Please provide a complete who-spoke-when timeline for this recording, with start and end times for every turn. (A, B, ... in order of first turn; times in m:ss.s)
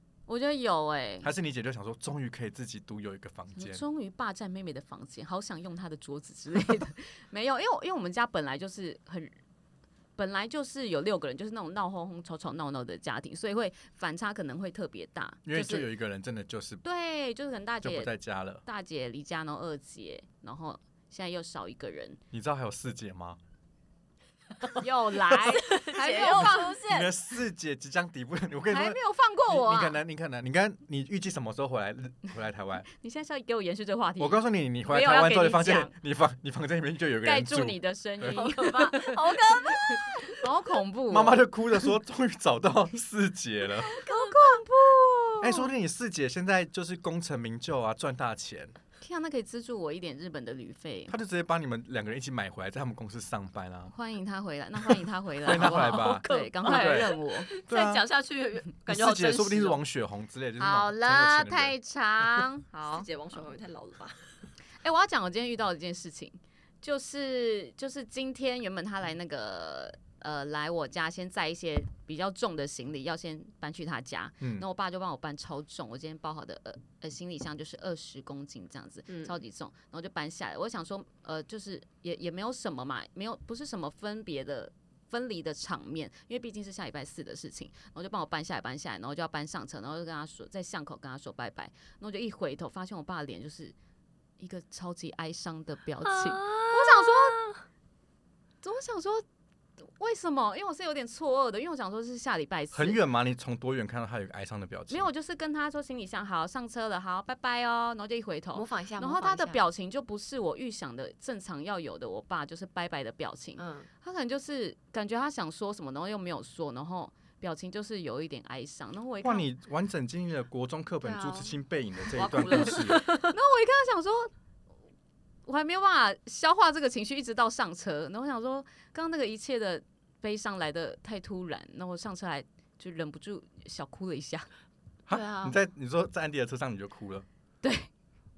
0:00.3-0:01.3 A
0:01.2-0:03.8 B
0:03.6-0:09.4 A
0:10.2-0:15.9 A
0:15.5-0:16.8 B
0:16.8-0:18.1 A
0:17.8-0:18.6 B
0:18.6-0:22.2 A
0:22.3-0:23.4 B
0:24.8-0:26.8 A
0:25.4-0:27.1 C
0:26.3-0:32.9 B
0:28.7-0:30.0 A
0:32.9-0:35.9 A
0:34.2-0:38.4 B
0:37.2-0:41.9 A
0:38.2-0:40.4 C
0:41.1-0:44.0 B
0:43.8-0:45.7 A
0:43.9-0:44.6 C
0:45.4-0:48.8 B
0:49.0-0:51.2 A
0:51.1-0:53.9 B
0:53.9-0:57.5 A
0:55.4-0:59.8 C
0:55.5-0:57.1 B
0:57.6-0:58.0 B
0:58.9-1:01.8 B
1:00.6-1:03.1 A
1:02.9-1:04.3 C
1:04.8-1:33.8 A
1:14.4-1:14.7 B
1:19.1-1:19.4 C
1:34.4-1:37.4 A
1:36.0-1:37.7 C
1:38.6-1:39.2 A
1:39.9-1:43.0 A
1:42.7-1:45.1 B
1:44.9-1:59.5 A
1:48.5-1:49.6 C
1:53.6-1:53.9 C
1:59.2-2:03.0 B
2:01.0-2:01.5 C
2:02.1-2:03.4 C
2:02.4-2:04.3 A
2:05.5-2:14.5 A
2:15.1-2:17.3 B
2:15.1-2:15.6 C
2:17.6-2:17.9 A